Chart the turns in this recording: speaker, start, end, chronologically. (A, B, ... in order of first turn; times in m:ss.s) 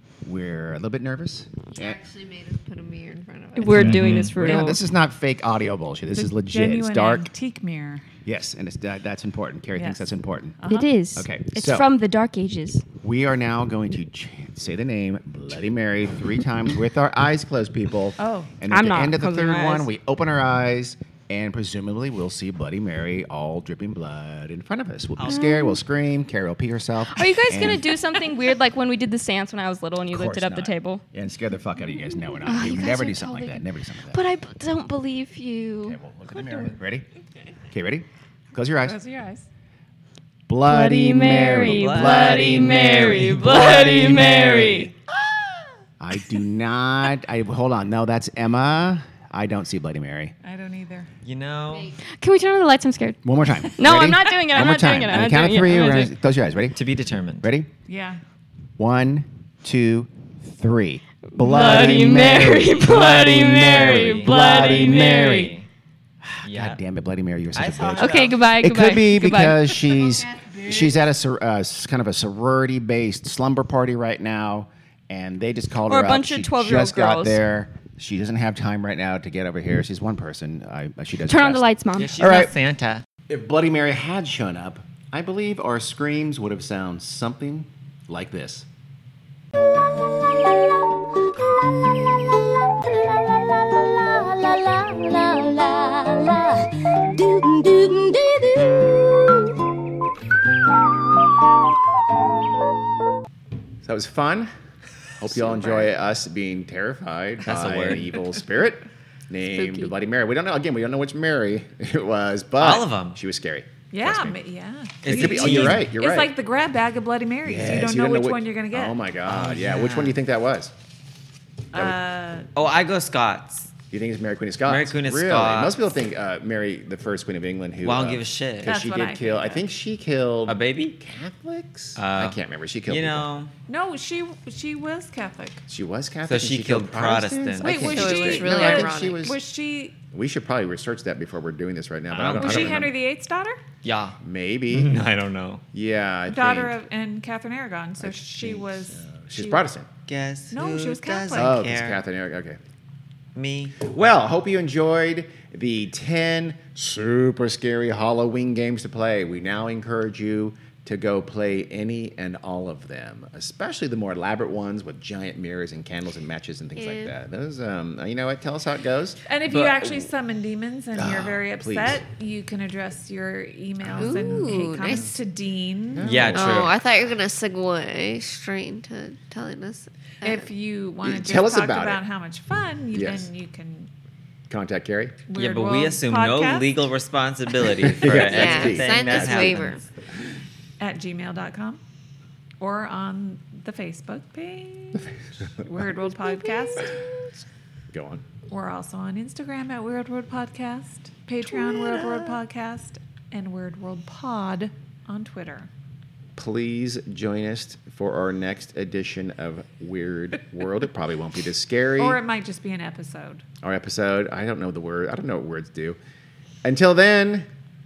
0:00.2-0:02.0 A
0:01.7-0:03.9 B
0:03.5-0:04.8 C
0:03.7-0:04.4 D
0:03.8-0:07.3 A
0:04.4-0:04.8 E
0:06.1-0:08.0 E
0:08.2-0:10.6 A
0:09.8-0:10.0 E
0:10.6-0:10.9 E
0:10.6-0:12.8 C
0:11.1-0:11.9 A
0:13.0-0:28.0 A
0:18.2-0:18.6 E
0:18.7-0:19.9 C
0:25.2-0:25.5 D
0:25.2-0:25.8 C
0:27.1-0:31.0 C
0:30.1-0:34.2 A
0:32.3-0:36.0 C
0:35.8-0:37.0 A
0:36.3-0:36.6 D
0:37.7-0:39.0 A
0:38.8-0:39.5 E
0:40.5-0:44.9 A
0:40.7-0:44.9 C
0:41.6-0:44.5 D
0:46.0-0:50.3 A
0:50.4-0:51.1 E
0:51.2-0:51.9 D
0:52.0-0:53.2 C
0:53.2-0:56.8 A
0:53.7-0:56.0 C
0:55.6-0:56.1 D
0:56.7-0:57.5 D
0:57.4-0:57.7 A
0:57.8-0:58.2 E
0:58.8-1:05.5 A
1:01.3-1:05.5 C
1:02.8-1:05.7 D
1:06.2-1:22.5 A
1:06.4-1:06.8 D
1:07.5-1:08.5 D
1:08.0-1:10.1 C
1:15.9-1:17.4 C
1:21.3-1:22.2 C
1:22.0-1:23.0 D
1:23.3-1:28.7 A
1:29.6-1:39.7 C
1:43.8-1:44.5 A
1:45.2-1:54.4 A
1:47.4-1:48.2 D
1:52.6-1:53.2 D
1:53.9-1:59.0 E
1:55.0-1:55.9 D
1:55.1-1:56.3 A
1:57.4-2:00.7 A
1:59.2-2:00.2 D
2:01.7-2:02.5 E
2:02.5-2:03.7 D
2:03.9-2:13.2 A
2:04.6-2:05.8 D
2:07.8-2:08.8 D
2:08.6-2:09.6 E
2:10.5-2:11.0 D
2:12.0-2:13.5 D
2:13.7-2:15.6 E
2:15.7-2:19.4 A
2:16.3-2:17.8 D
2:17.6-2:19.9 E
2:17.8-2:19.2 B
2:20.1-2:23.0 A
2:22.1-2:22.9 D
2:22.3-2:23.6 E
2:23.8-2:24.2 D
2:24.2-2:24.9 A
2:24.7-2:25.6 D
2:25.7-2:26.7 A
2:26.3-2:29.6 E
2:28.0-2:29.9 A
2:30.1-2:32.0 D
2:30.5-2:31.5 E
2:31.3-2:32.6 A
2:33.3-2:33.8 D
2:33.8-2:50.1 A
2:46.7-2:47.1 B
2:49.3-2:56.1 E
2:49.5-2:49.8 D
2:50.9-2:52.0 A
2:53.8-2:55.0 A
2:54.0-2:55.1 B
2:55.9-2:56.8 A
2:56.0-2:56.8 D
2:56.3-3:00.4 B
3:00.2-3:03.9 E
3:01.0-3:02.0 A
3:02.9-3:03.3 A
3:04.5-3:05.2 A
3:05.3-3:06.7 E
3:05.3-3:09.8 D
3:07.8-3:09.7 A
3:08.1-3:09.8 B
3:10.8-3:11.8 E
3:12.6-3:17.0 E
3:16.1-3:17.4 B
3:17.9-3:18.2 A
3:18.5-3:25.7 E
3:21.7-3:22.0 A
3:26.4-3:32.2 A
3:32.0-3:33.4 E
3:33.6-3:36.0 A
3:36.6-3:37.5 A